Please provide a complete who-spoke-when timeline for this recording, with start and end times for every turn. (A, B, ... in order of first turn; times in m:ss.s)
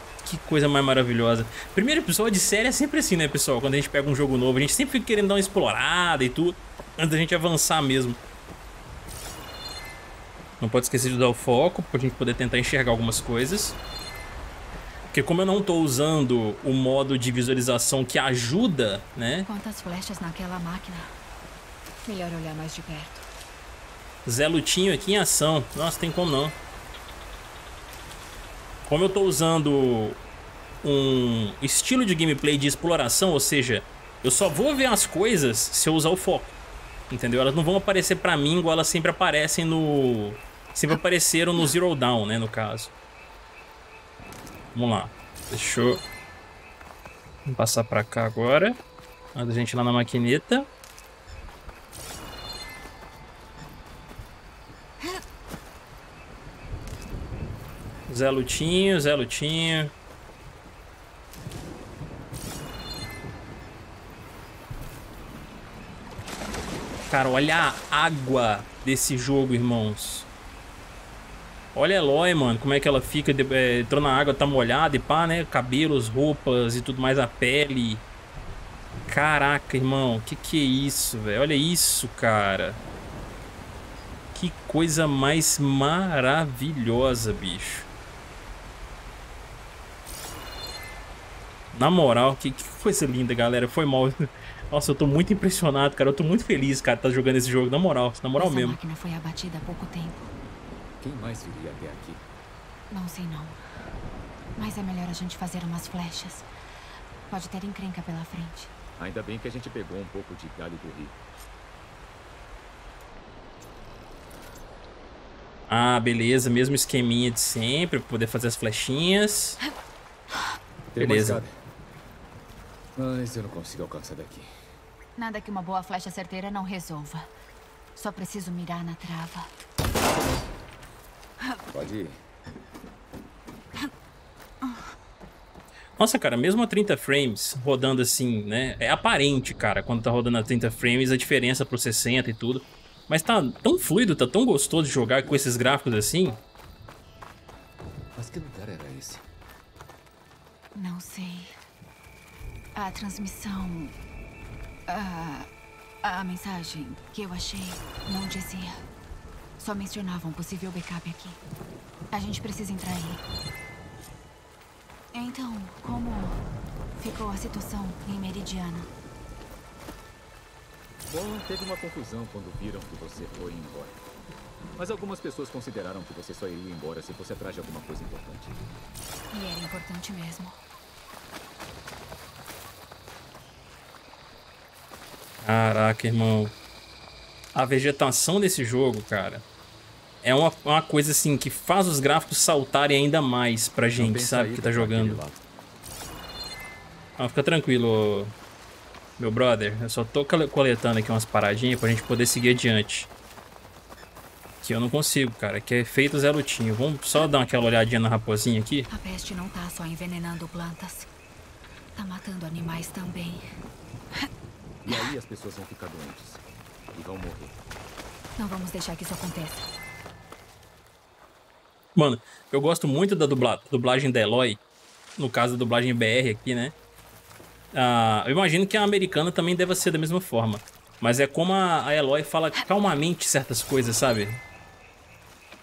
0:00.2-0:08.2 A
0:10.6-0:13.8 A
0:15.1-0:19.5 A
0:19.5-0:21.1 B
0:22.0-0:23.3 B
0:24.3-0:26.6 A
0:28.9-0:30.2 A
0:30.8-0:36.6 A
0:37.1-0:42.9 A
0:44.7-0:46.0 A
0:47.5-0:48.8 A
0:49.4-0:50.7 A
0:58.1-0:59.9 A
1:07.1-1:10.3 A
1:11.8-1:18.0 A
1:19.1-1:22.8 A
1:24.4-1:27.9 A
1:31.7-1:38.8 A
1:38.4-1:40.3 B
1:41.0-1:42.2 C
1:42.9-1:43.6 B
1:44.6-1:46.5 B
1:47.3-1:48.7 B
1:49.0-1:51.2 C
1:55.7-1:59.6 A
2:00.9-2:01.5 C
2:01.0-2:01.4 A
2:03.0-2:04.5 C
2:05.2-2:07.3 B
2:08.0-2:09.5 B
2:11.7-2:12.2 C
2:16.0-2:26.4 A
2:28.2-2:29.2 C
2:30.8-2:31.6 B
2:32.8-2:33.9 B
2:34.9-2:35.5 B
2:36.0-2:38.8 B
2:39.6-2:41.4 B
2:42.1-2:43.2 B
2:45.1-2:46.4 B
2:47.0-2:48.9 B
2:51.1-2:54.0 C
2:54.8-2:58.6 C
2:59.3-3:00.6 B
3:05.4-3:06.5 A
3:07.5-3:09.4 A
3:10.2-3:15.2 A
3:14.0-3:15.4 C
3:17.2-3:18.3 A
3:19.2-3:23.1 A
3:24.6-3:28.9 A
3:28.9-3:31.1 B
3:32.0-3:33.4 B
3:34.8-3:36.4 C
3:36.9-3:37.6 C
3:38.4-3:39.7 B
3:42.0-3:44.6 A
3:45.2-3:46.8 A
3:47.7-3:54.4 A